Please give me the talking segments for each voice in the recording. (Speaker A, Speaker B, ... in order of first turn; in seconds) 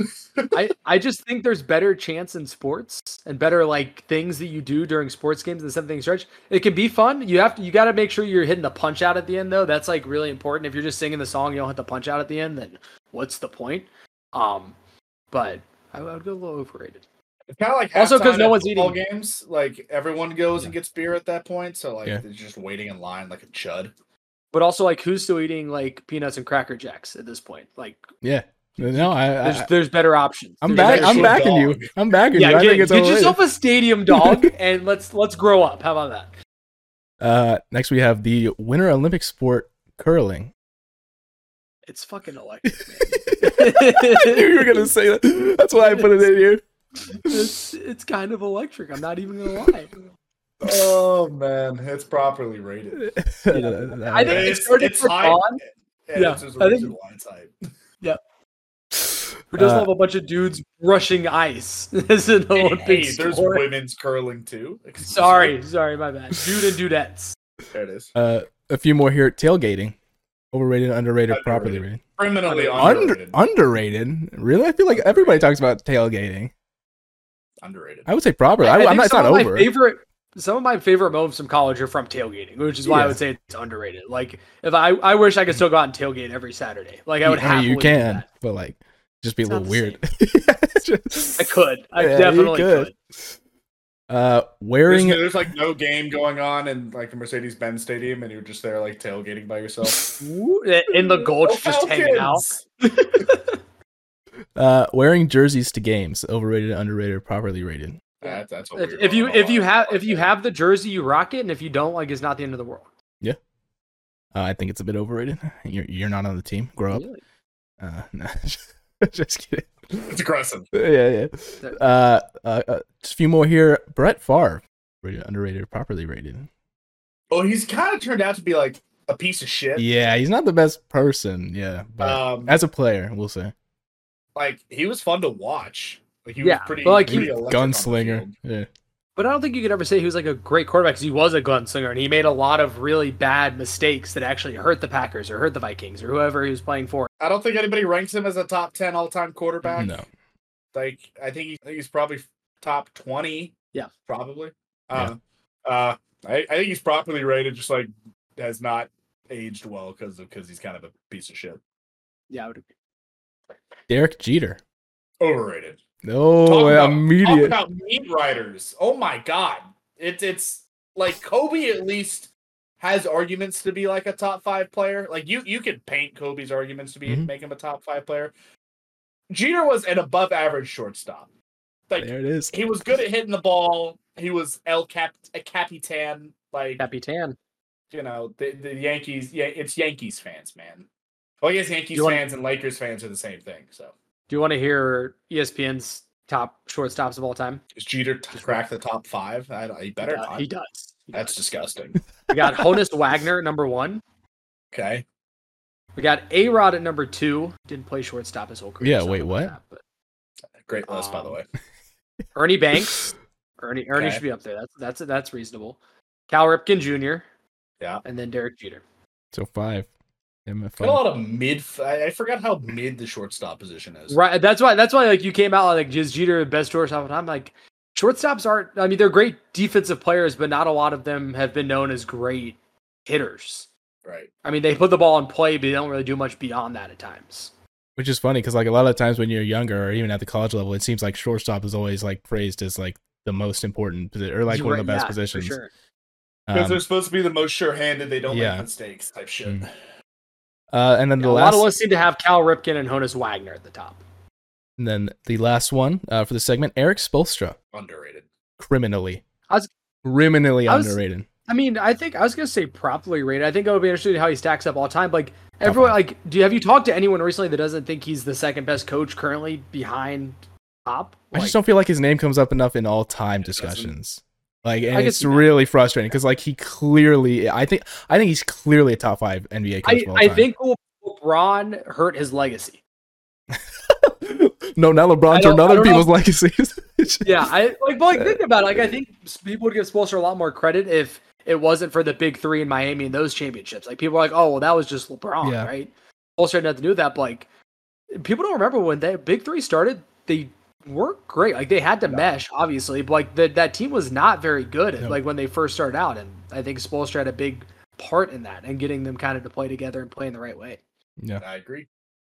Speaker A: 0.5-14.8, 15.3-17.0, 17.9-19.0, 24.5-28.1, 29.0-31.4, 32.3-36.3, 41.9-44.9, 45.8-46.3, 47.3-49.9, 53.5-55.6, 56.1-56.9, 59.5-63.7, 65.0-67.4, 72.5-73.0, 78.6-88.3, 89.5-90.0, 91.4-92.9, 100.2-103.6, 108.2-112.9, 116.9-117.2, 136.4-137.3, 139.2-147.1, 162.3-162.7, 186.8-187.4, 191.9-192.2, 194.3-197.6, 200.0-201.4, 202.3-204.0, 206.0-209.8, 210.9-211.4, 212.3-215.8, 216.3-217.2, 218.0-218.8, 224.1-233.7, 234.4-237.5, 244.5-245.7, 251.2-254.0, 260.7-271.6, 274.9-275.5, 279.8-282.8, 285.3-286.1, 287.2-297.5, 298.1-310.8
Speaker B: 17.5-23.9, 30.7-31.9, 50.6-53.1, 54.2-57.5, 62.5-65.6, 67.7-68.1, 71.3-73.4, 74.9-75.4, 77.6-78.1, 94.9-100.2, 101.4-102.7, 108.2-110.3, 120.1-120.7, 127.3-129.9, 132.0-132.6, 134.3-138.3, 147.2-150.0, 150.7-153.5, 154.1-161.6, 165.2-165.8, 166.4-178.3, 179.3-181.3, 181.9-186.8, 187.9-190.9, 191.4-193.9, 197.8-200.5, 201.1-202.0, 204.7-205.1, 210.7-211.5, 214.0-214.2, 220.8-224.2, 246.5-249.7, 257.7-258.3, 273.4-273.9, 311.4-311.9
Speaker C: 28.2-29.7, 30.6-33.4, 34.1-34.5, 37.2-40.5, 43.2-46.6, 53.0-54.6, 59.5-59.9, 68.2-70.0, 70.5-72.0, 72.7-76.5, 78.1-79.7, 82.9-83.2, 87.2-93.0, 94.1-95.4, 104.6-108.0, 114.3-117.0, 117.8-120.2, 120.7-126.5, 129.8-133.5, 137.1-138.7, 149.7-150.1, 163.9-164.6, 166.1-167.6, 182.0-182.6, 208.8-209.6, 219.3-219.9, 220.5-221.0, 238.0-245.6, 246.5-246.8, 248.3-248.7, 250.7-251.7, 254.8-257.6, 258.6-259.2, 260.0-261.3, 265.6-266.0, 271.3-280.5, 283.5-287.5, 295.4-295.7